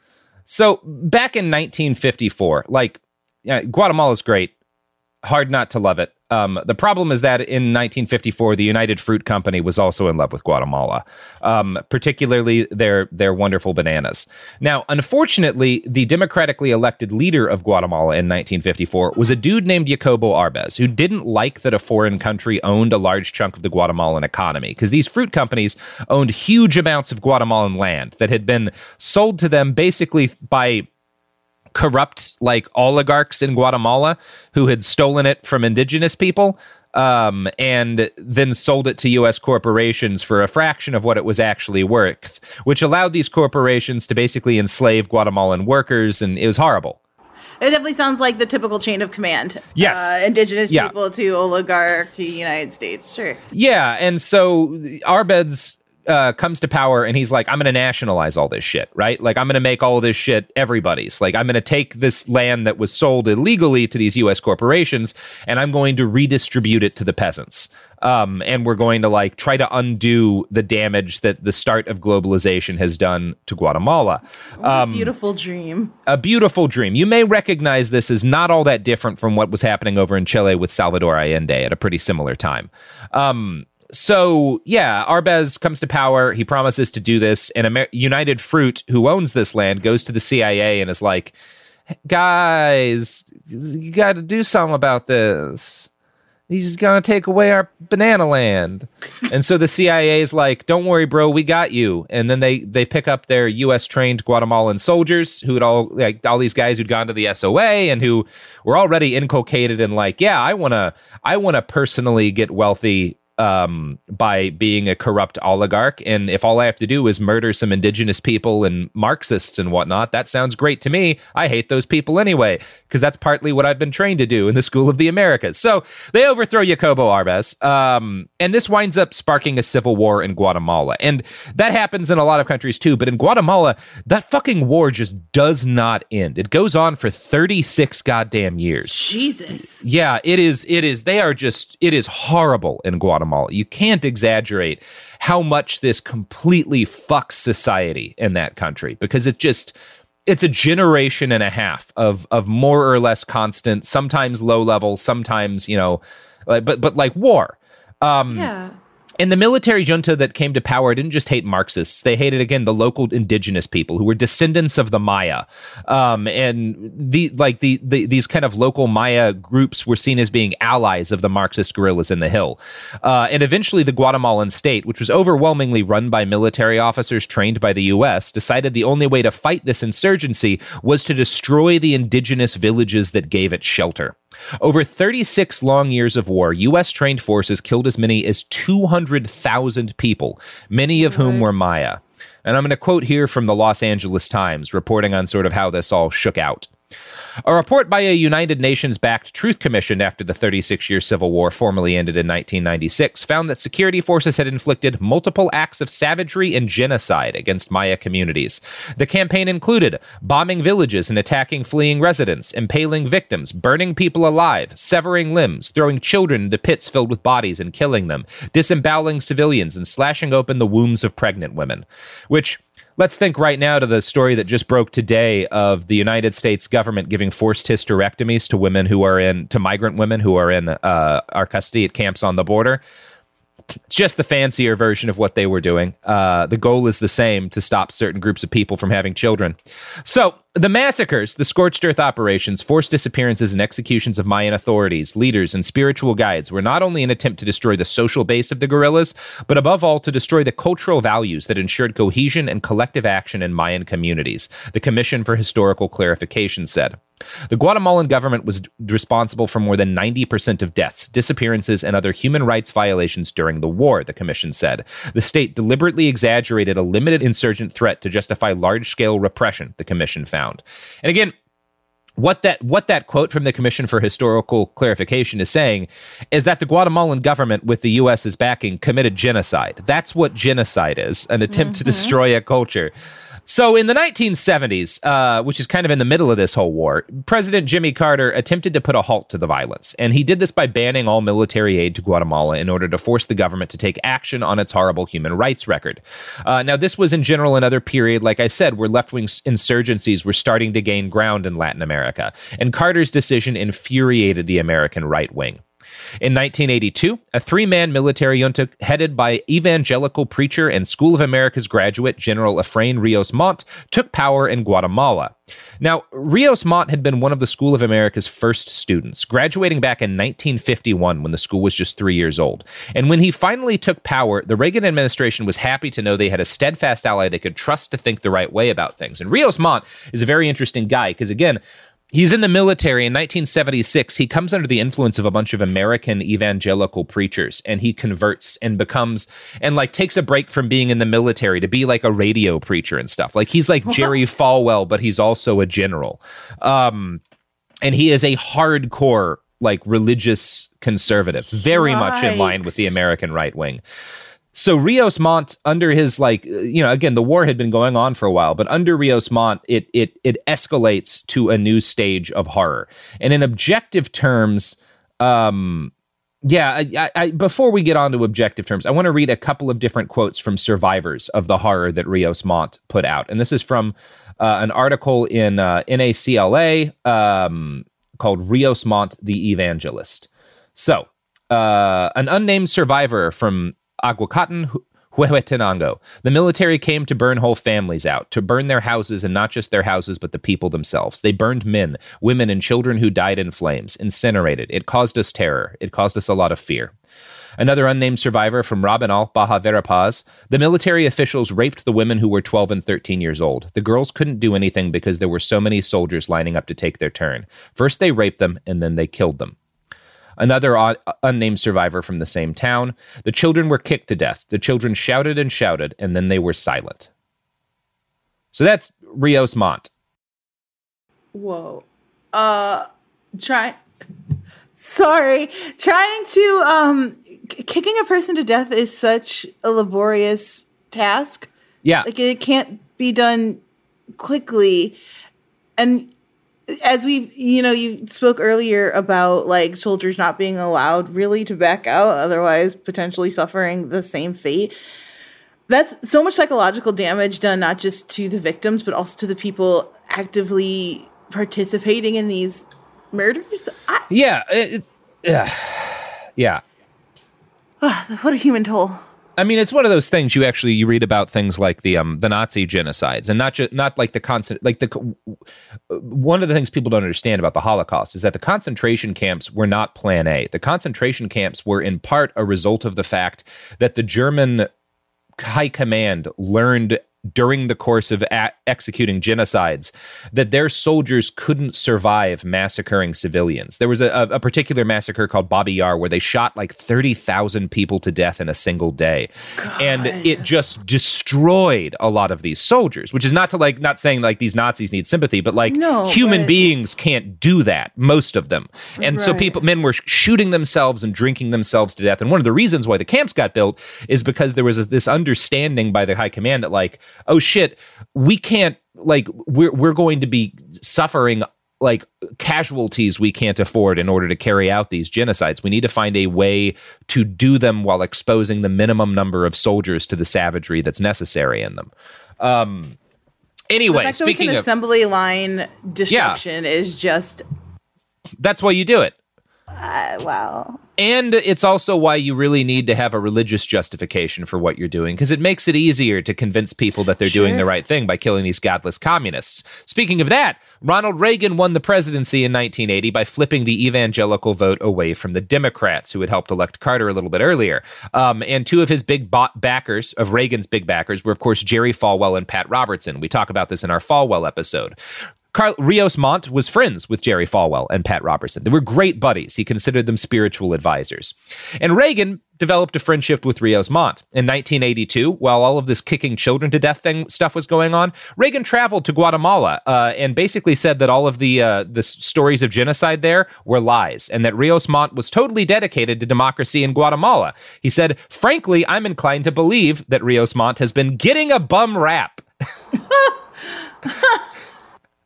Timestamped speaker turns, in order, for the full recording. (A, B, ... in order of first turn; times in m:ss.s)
0:00.5-0:04.5 A
0:05.2-0:30.9 A
0:31.7-0:47.0 A
0:47.6-0:53.4 B
0:49.8-0:50.1 A
0:53.5-1:15.1 A
1:14.6-1:15.9 B
1:16.1-1:31.4 A
1:32.1-1:35.9 A
1:36.5-2:19.1 A
2:18.9-2:19.8 B
2:19.8-2:29.7 A
2:30.3-2:38.5 A
2:38.3-2:38.8 B
2:39.2-3:16.7 A
3:11.0-3:11.4 B
3:17.5-3:52.8 A
3:53.9-4:17.0 A
4:17.5-4:31.3 A
4:32.2-4:42.9 A
4:41.5-4:42.2 B
4:43.5-5:05.6 A
5:06.2-5:31.6 A
5:32.1-5:47.2 A
5:43.9-5:44.1 B
5:47.8-5:53.8 A
5:51.7-5:53.0 B
5:54.5-6:05.9 A
6:06.4-6:36.9 A
6:37.6-6:49.6 A
6:50.4-6:57.1 A
6:58.5-6:59.9 A
7:01.3-7:02.9 B
7:03.4-7:03.8 B
7:04.8-7:11.5 B
7:12.0-7:13.6 B
7:14.2-7:15.0 B
7:15.8-7:16.1 B
7:16.7-7:24.7 B
7:25.7-7:34.1 B
7:34.1-7:36.6 A
7:37.8-7:39.0 B
7:39.4-7:45.4 A
7:45.9-7:54.7 A
7:55.4-8:43.0 A
8:09.6-8:10.4 B
8:15.7-8:16.7 B
8:19.0-8:19.6 B
8:43.7-8:44.7 A
8:43.9-8:47.4 B
8:46.1-8:46.4 A
8:48.4-8:49.1 A
8:49.8-8:50.8 B
8:51.0-9:15.0 A
8:57.2-8:57.6 B
9:15.5-9:42.4 A
9:43.0-9:44.5 B